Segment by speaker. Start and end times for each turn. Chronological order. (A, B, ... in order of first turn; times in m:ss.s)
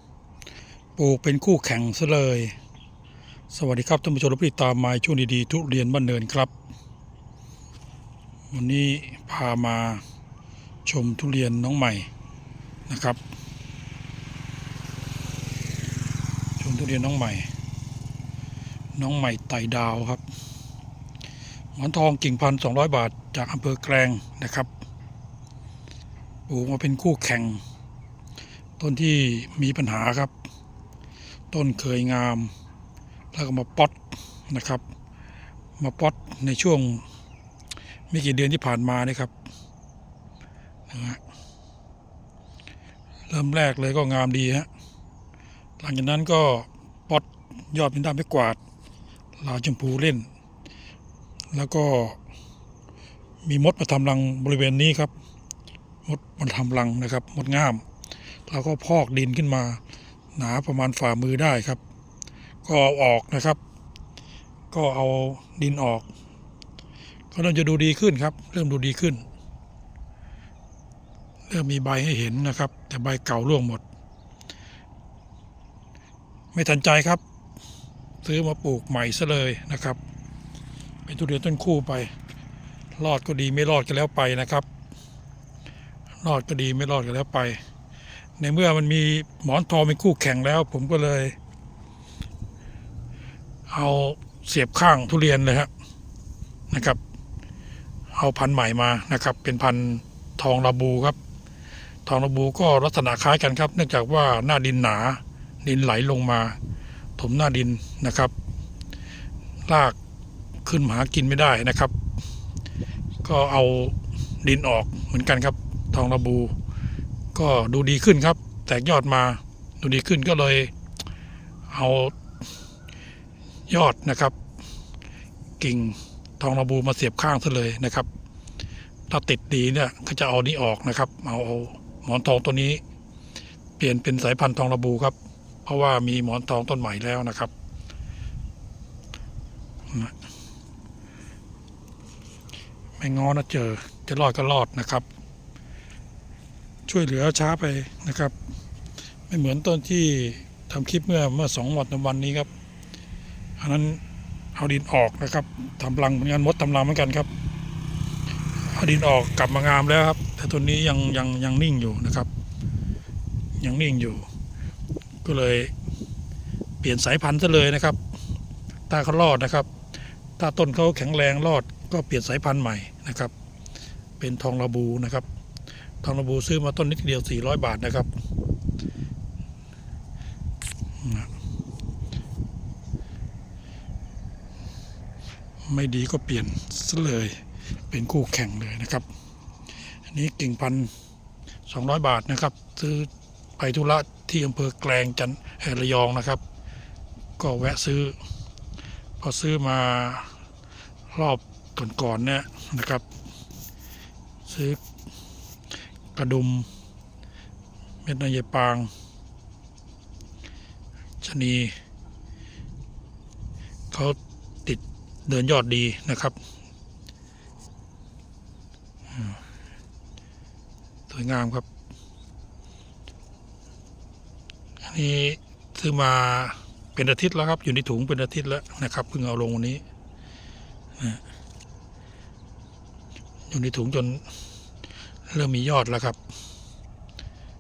0:01.0-0:02.6 A
0:03.5-0:06.5 A
0:08.5-0:10.0 A
0:10.9-0:12.1 A
0:12.9-0:13.2 A
0:16.6-0:17.5 A
0:19.0-0:20.2 A
0:21.8-0:24.7 A
0:26.5-0:27.6 A
0:28.8-0:30.3 A
0:31.5-0:32.5 A
0:33.3-0:34.0 A
0:34.5-0:34.8 A
0:35.8-0:37.0 A
0:38.1-0:39.3 A
0:40.9-0:41.2 A
0:43.3-0:44.7 A
0:45.8-0:48.6 A
0:49.4-0:50.3 A
0:51.5-0:52.2 A
0:53.4-0:55.1 A
0:56.1-0:57.8 A
0:58.5-0:59.8 A
1:00.4-1:01.8 A
1:02.6-1:03.6 A
1:04.7-1:06.1 A
1:07.3-1:09.2 A
1:11.5-1:13.8 A
1:16.5-1:17.2 A
1:18.2-1:20.0 A
1:21.1-1:22.1 A
1:23.0-1:24.7 A
1:26.2-1:27.6 A
1:28.4-1:31.4 A
1:33.7-1:35.7 A
1:36.7-1:37.0 A
1:38.1-1:41.2 A
1:42.1-1:46.6 A
1:47.2-1:48.3 A
1:49.7-1:50.0 A
1:50.6-1:51.9 A
1:53.2-1:56.5 A
1:57.4-2:00.7 A
2:01.7-2:02.2 A
2:03.7-2:04.4 A
2:05.6-2:08.1 A
2:09.1-2:12.8 A
2:13.8-2:17.5 A
2:19.9-2:20.2 A
2:23.0-2:25.0 A
2:26.9-2:28.3 A
2:29.3-2:32.5 A
2:33.6-2:34.0 A
2:34.6-2:37.3 A
2:38.7-2:42.3 A
2:43.6-2:44.3 A
2:45.2-2:45.7 A
2:46.8-2:48.0 A
2:48.9-2:49.7 A
2:50.4-2:53.3 A
2:54.2-2:55.2 A
2:56.0-2:58.1 A
3:01.0-3:01.3 A
3:05.6-3:09.0 A
3:10.1-3:10.9 A
3:11.7-3:16.4 A
3:17.4-3:18.2 A
3:19.2-3:20.3 A
3:21.1-3:23.0 A
3:24.5-3:24.8 A
3:26.2-3:26.7 A
3:28.0-3:28.9 A
3:31.2-3:31.7 A
3:33.9-3:36.4 A
3:41.1-3:41.6 A
3:44.8-3:49.8 A
3:53.5-3:54.2 A
3:55.3-3:56.2 A